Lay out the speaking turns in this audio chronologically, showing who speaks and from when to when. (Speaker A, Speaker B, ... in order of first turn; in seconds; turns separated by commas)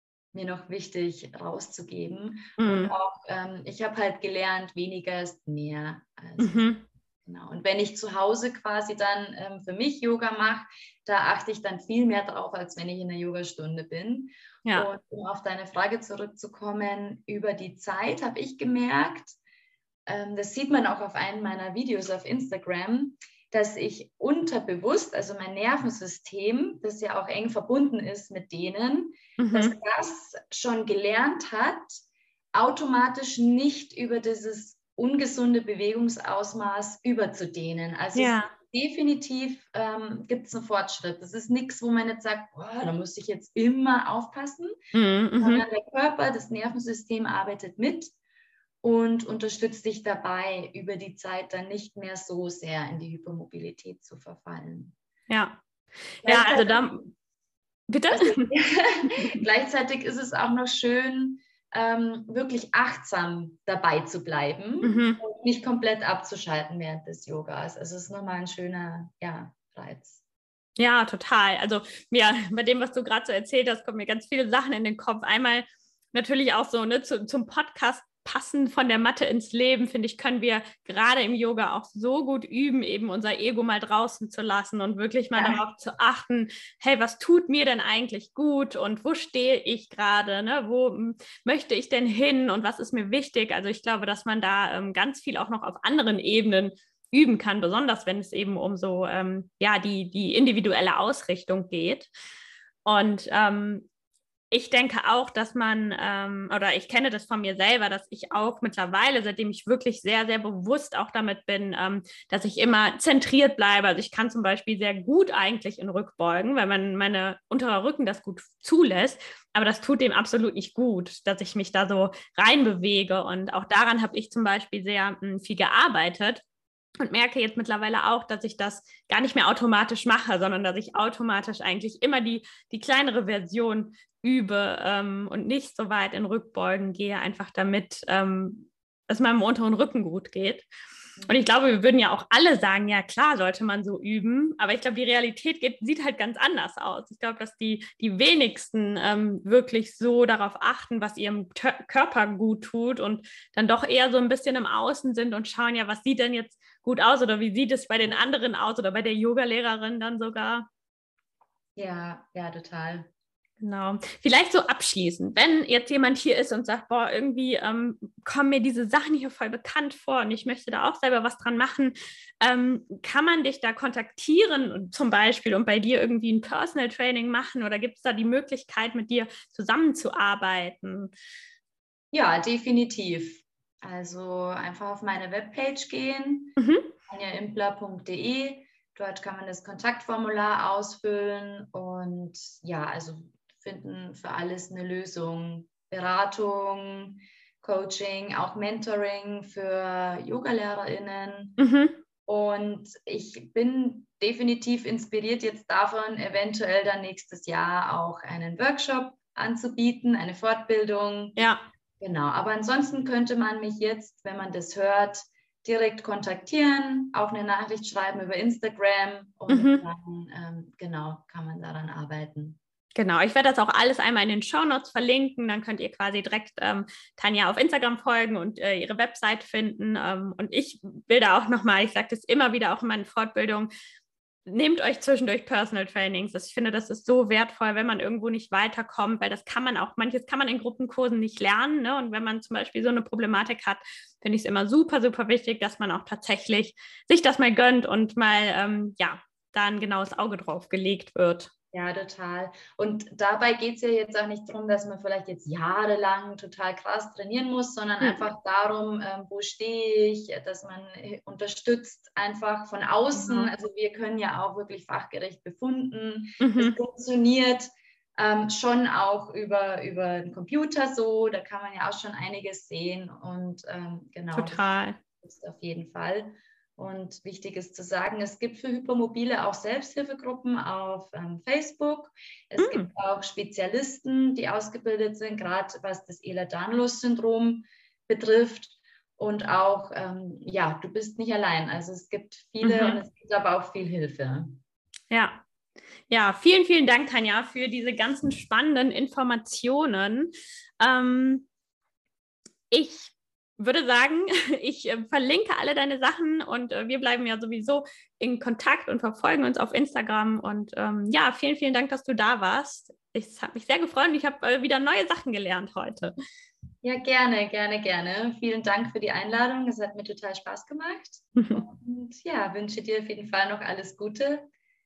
Speaker A: 0.3-19.3, Speaker B: 2.6-2.9, Speaker B: 6.4-6.8, Speaker A: 20.1-32.0, Speaker B: 29.4-29.8, Speaker A: 32.5-44.7, Speaker B: 38.1-38.5, Speaker B: 44.9-45.6, Speaker A: 45.4-48.1, Speaker A: 48.8-54.9, Speaker B: 55.3-55.6, Speaker B: 56.2-57.0, Speaker A: 56.2-57.1, Speaker B: 57.9-58.5, Speaker A: 58.1-70.2, Speaker B: 64.8-65.2, Speaker B: 70.8-102.1, Speaker A: 85.3-85.6, Speaker B: 102.8-103.9, Speaker B: 104.5-126.4, Speaker B: 127.0-140.7, Speaker B: 141.2-160.7, Speaker A: 161.8-163.1, Speaker B: 163.6-181.1, Speaker A: 182.1-186.6, Speaker B: 186.6-186.9, Speaker A: 187.1-201.6, Speaker B: 201.6-202.0, Speaker A: 202.2-211.4, Speaker B: 211.4-211.7, Speaker A: 212.0-222.6, Speaker B: 219.5-219.8, Speaker B: 222.9-233.7, Speaker B: 234.4-251.5, Speaker A: 251.7-294.6, Speaker B: 263.1-263.5, Speaker B: 266.4-266.8, Speaker B: 274.3-275.0, Speaker B: 282.6-282.9, Speaker B: 292.6-293.0, Speaker B: 295.1-295.4, Speaker B: 296.1-301.5, Speaker B: 302.7-316.1, Speaker A: 316.8-324.4, Speaker B: 321.4-321.6